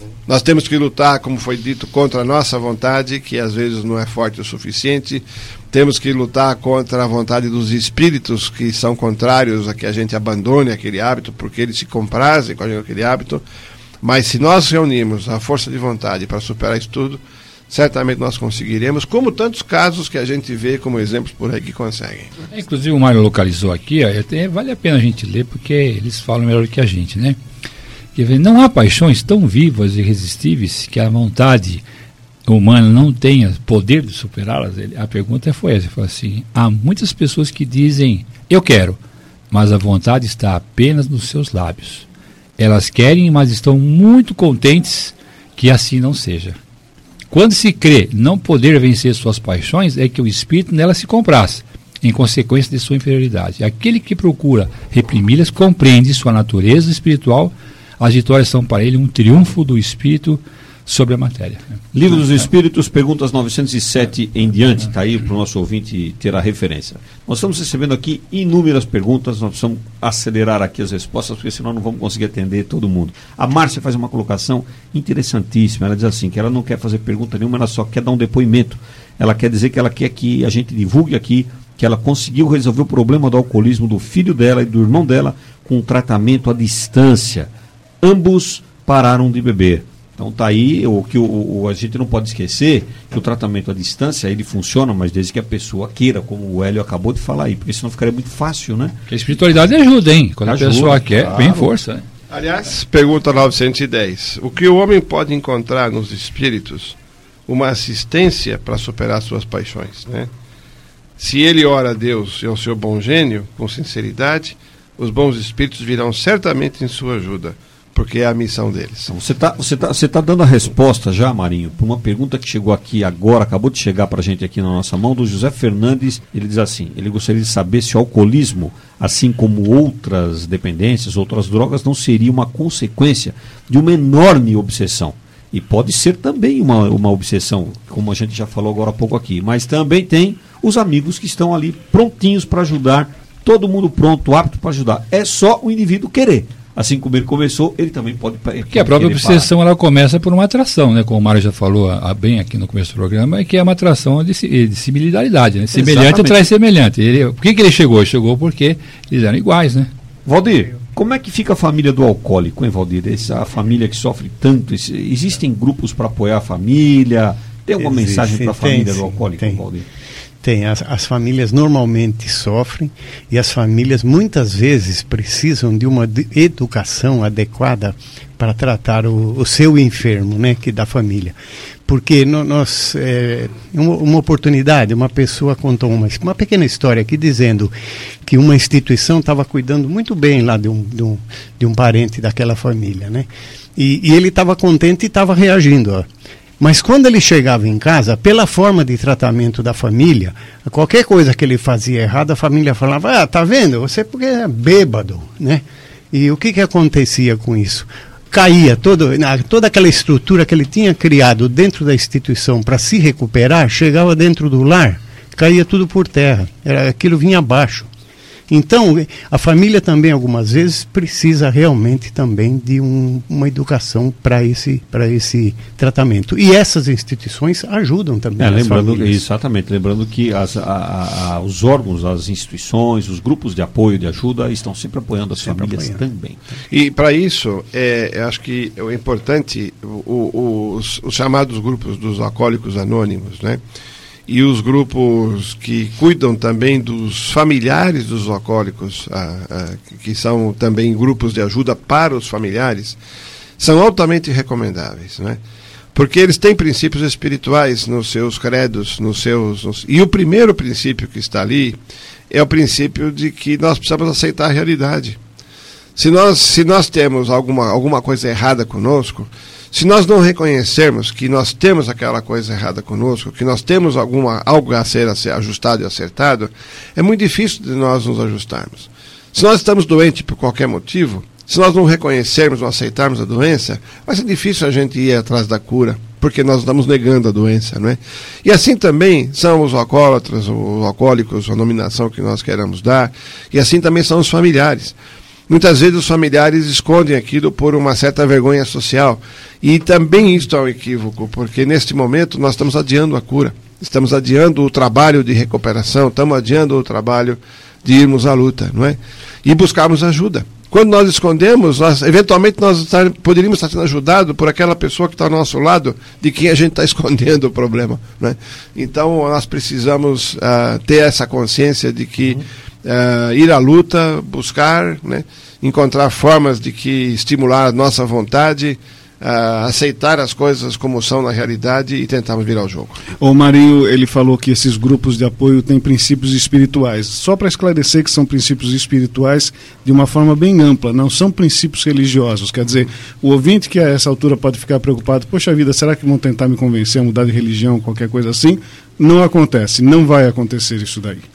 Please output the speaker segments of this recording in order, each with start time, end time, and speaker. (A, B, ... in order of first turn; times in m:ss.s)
0:00.3-0:13.4 A
0:14.0-0:22.3 A
0:22.5-0:27.4 B
0:28.1-0:31.8 B
0:32.4-0:39.0 B
0:39.5-0:42.1 B
0:42.6-0:46.6 B
0:47.3-1:01.8 B
1:01.9-1:27.5 C
1:28.0-1:39.0 C
1:39.1-1:42.0 B
1:40.4-1:41.7 C
1:42.3-1:47.0 A
1:47.5-1:50.3 A
1:51.2-1:59.1 A
1:59.1-2:29.5 C
2:28.6-2:39.9 B
2:35.7-2:36.4 C
2:40.2-2:49.8 C
2:47.8-2:49.6 D
2:50.4-3:01.3 D
3:01.9-3:07.7 D
3:08.2-3:16.1 D
3:16.6-3:37.9 D
3:38.5-3:49.2 D
3:48.4-3:56.4 C
3:55.4-3:56.0 D
3:56.7-4:03.6 A
4:04.3-4:13.0 A
4:13.6-4:15.4 A
4:15.9-4:21.8 A
4:22.3-4:25.2 A
4:26.0-4:55.0 A
4:55.5-5:33.0 A
5:33.2-5:51.2 E